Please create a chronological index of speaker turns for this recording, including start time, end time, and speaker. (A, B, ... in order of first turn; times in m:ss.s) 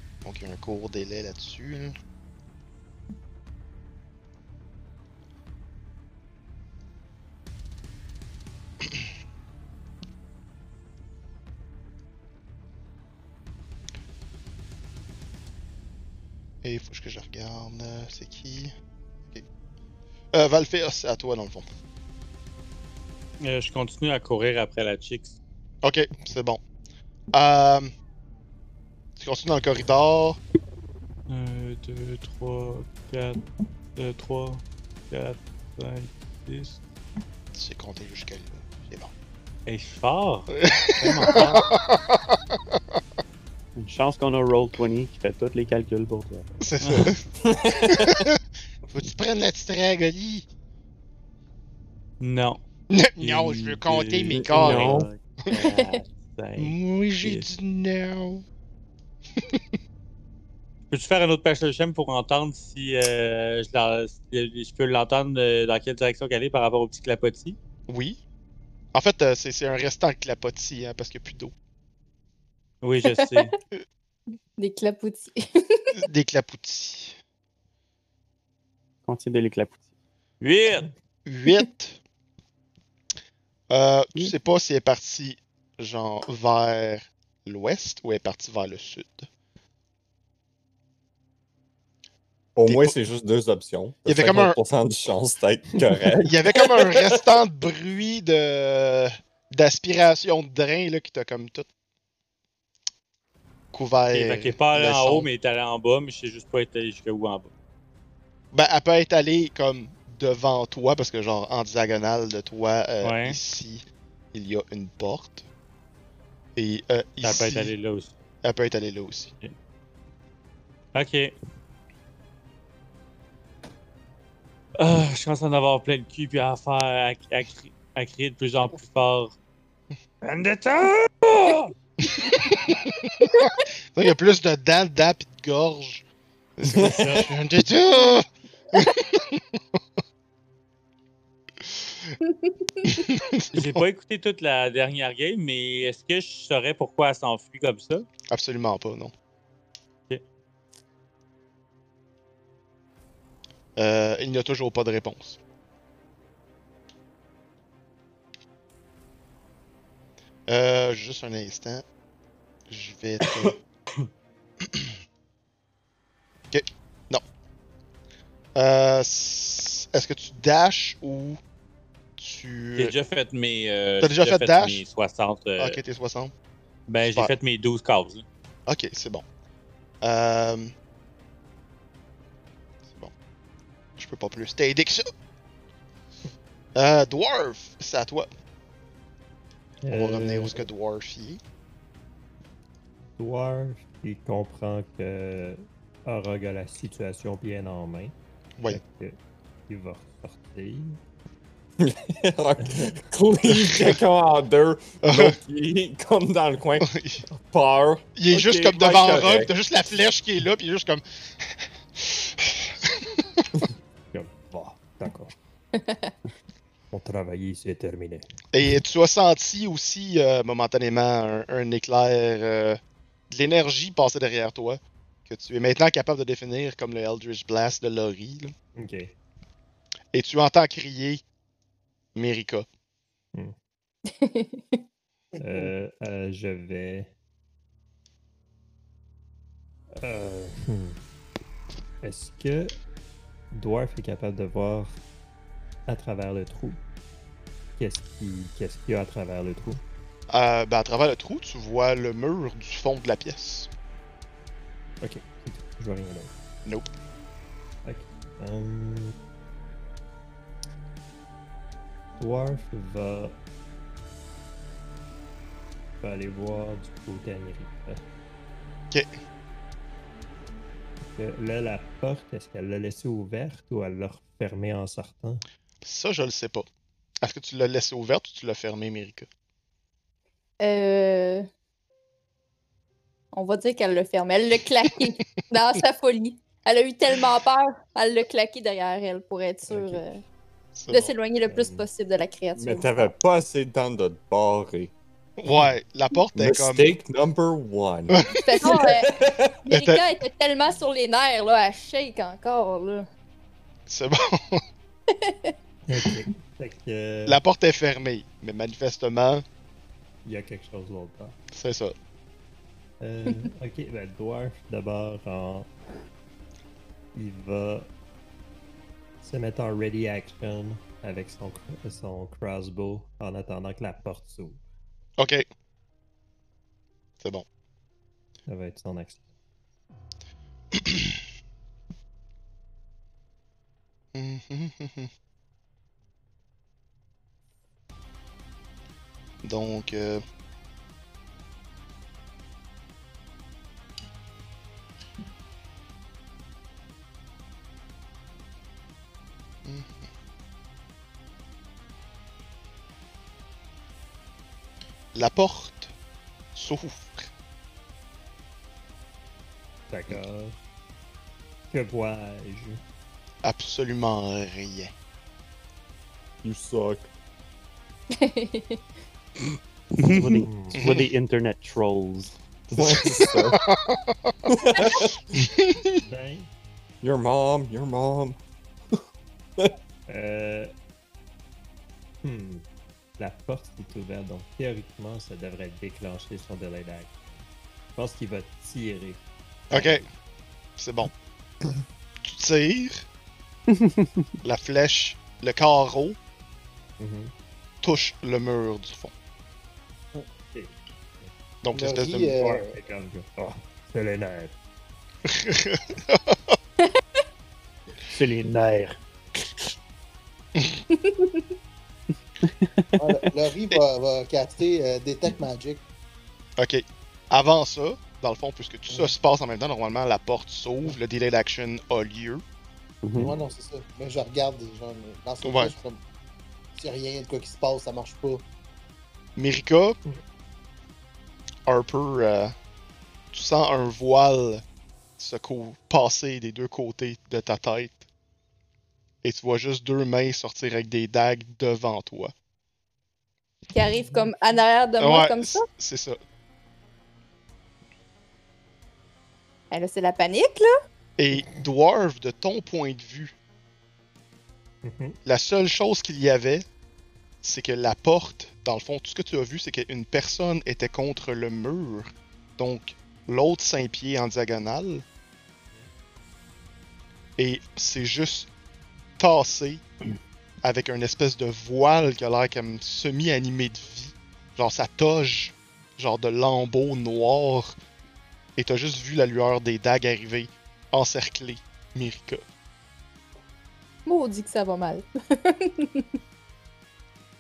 0:00.2-0:02.0 A
0:16.6-0:18.7 A
0:20.3-0:21.7 A
0:23.4-0:25.4 B
0:25.8-0:26.6 A
0:27.3-0:27.9 A
0:29.2-0:30.4 A
0:31.3-0:33.4 B
0:34.0-0:36.8 B
0:37.6-0:39.1 A
0:39.7-0:40.5 B
0:40.6-0:42.3 A
0:41.1-0:41.5 B
0:43.8-0:46.5 C
0:46.6-0:48.4 A
0:46.8-0:47.2 B
0:47.4-0:48.2 D
0:48.9-0:50.4 A
0:52.2-0:52.6 B
0:52.9-0:55.5 A
0:53.2-0:55.2 B
0:54.3-0:55.1 D
0:54.6-0:56.4 C
0:55.7-0:56.0 E
0:56.4-0:57.5 B
0:56.6-0:58.4 A
1:00.9-1:07.6 B
1:07.9-1:08.2 A
1:08.9-1:11.5 A
1:12.8-1:13.6 B
1:13.2-1:13.5 E
1:14.6-1:16.0 E
1:15.9-1:17.2 A
1:19.1-1:19.8 C
1:20.4-1:20.9 B
1:21.3-1:22.0 A
1:23.7-1:29.3 A
1:32.6-1:37.2 D
1:32.7-1:33.0 A
1:34.1-1:34.6 A
1:36.3-1:41.7 A
1:43.7-1:45.3 A
1:44.1-1:47.5 B
1:48.5-1:55.4 A
1:53.0-1:53.4 B
1:56.6-1:57.7 A
1:57.2-1:58.1 B
1:58.4-1:59.3 A
2:01.0-2:01.3 B
2:04.8-2:09.3 B
2:10.2-2:11.7 B
2:12.1-2:16.0 A
2:16.6-2:19.4 A
2:16.7-2:17.3 D
2:16.7-2:17.3 B
2:22.2-2:23.0 E
2:22.9-2:23.8 A
2:23.5-2:28.1 B
2:28.3-2:29.1 A
2:33.8-2:35.4 A
2:40.5-2:41.8 A
2:42.7-2:43.6 A
2:43.2-2:43.5 D
2:46.5-2:47.2 A
2:48.6-2:51.4 A
2:52.2-2:52.9 A
2:52.8-2:55.8 B
2:54.0-2:54.8 A
2:55.6-2:56.3 A
2:56.9-2:58.2 B
2:57.0-2:57.3 A
2:58.7-2:59.2 A
3:00.0-3:00.7 A
3:04.0-3:05.1 A
3:06.8-3:08.3 A
3:09.8-3:10.6 F
3:09.9-3:11.4 A
3:13.2-3:18.2 F
3:18.7-3:21.0 F
3:21.8-3:29.5 D
3:22.6-3:22.9 F
3:23.4-3:24.0 A
3:25.0-3:25.4 A
3:26.8-3:27.2 A
3:28.2-3:31.0 A
3:32.0-3:32.5 A
3:34.1-3:35.4 F
3:35.8-3:36.1 E
3:36.9-3:38.3 F
3:38.5-3:42.8 A
3:43.3-3:48.5 A
3:48.8-3:49.1 F
3:50.1-3:51.2 A
3:52.2-3:52.7 A
3:54.1-3:54.8 E
3:55.4-3:55.7 G
3:55.4-3:57.1 F
4:00.0-4:01.0 F
4:02.0-4:02.8 F
4:03.6-4:05.0 F
4:05.9-4:06.8 F
4:07.8-4:09.8 F
4:10.3-4:13.7 A
4:15.0-4:16.3 F
4:16.7-4:16.9 A
4:17.8-4:19.2 F
4:22.2-4:23.4 F
4:26.0-4:28.0 F
4:31.2-4:35.4 F
4:35.8-4:36.7 A
4:37.2-4:39.3 A
4:40.6-4:41.5 E
4:43.3-4:50.2 E
4:49.7-4:50.0 F
4:50.8-4:51.2 A
4:50.9-4:53.1 E
4:51.5-4:51.9 F
4:52.6-4:54.9 D
4:55.4-4:57.0 A
4:56.4-4:59.6 D
4:58.1-4:58.8 A
4:58.4-5:03.1 E
4:59.7-5:00.1 A
5:03.9-5:04.6 A
5:05.1-5:05.5 E
5:05.9-5:07.4 F
5:07.3-5:09.4 A
5:10.3-5:11.4 F
5:11.5-5:11.9 A
5:13.0-5:15.7 F
5:17.2-5:17.9 F
5:19.2-5:24.6 F
5:25.2-5:25.5 A
5:28.5-5:29.2 F
5:34.1-5:35.1 A
5:39.4-5:40.2 A
5:49.6-5:50.0 A
5:55.2-5:55.9 A
5:56.6-5:57.3 A
5:59.9-6:00.6 F
6:01.7-6:02.8 F
6:03.4-6:04.9 A
6:06.4-6:07.1 D
6:08.1-6:08.8 E
6:10.0-6:10.4 B
6:10.1-6:13.3 C
6:10.4-6:10.8 F
6:10.8-6:11.1 A
6:12.7-6:13.6 D
6:13.5-6:16.0 A
6:14.5-6:15.2 D
6:16.0-6:16.5 F
6:17.0-6:18.4 D
6:20.1-6:20.7 F
6:22.2-6:22.6 F
6:23.2-6:27.1 F
6:28.0-6:29.2 F
6:29.7-6:30.0 F
6:29.7-6:30.0 A
6:30.8-6:31.1 A
6:32.3-6:33.0 A
6:33.7-6:34.3 C
6:34.4-6:36.2 A
6:37.0-6:37.3 F
6:37.8-6:39.1 A
6:40.5-6:41.3 F
6:41.6-6:42.4 A
6:41.7-6:42.8 G
6:42.4-6:44.6 F
6:45.3-6:46.6 A
6:48.1-6:49.7 C
6:50.9-6:51.4 E
6:52.4-6:53.0 C
6:53.0-6:55.8 G
6:56.6-7:02.4 A
7:03.0-7:03.3 C
7:03.2-7:06.0 G
7:05.4-7:05.8 A
7:06.8-7:08.4 G
7:09.4-7:10.0 A
7:11.7-7:12.5 A
7:13.3-7:14.6 A
7:15.2-7:18.0 A
7:19.2-7:22.3 A
7:23.7-7:25.7 E
7:25.0-7:26.2 A
7:29.7-7:30.7 E
7:31.2-7:33.3 A
7:34.8-7:35.2 F
7:35.2-7:36.6 A
7:37.4-7:45.0 A
7:47.4-7:48.5 A
7:49.2-7:49.8 A
7:50.6-7:57.7 A
7:58.6-8:02.4 A
8:04.1-8:06.1 E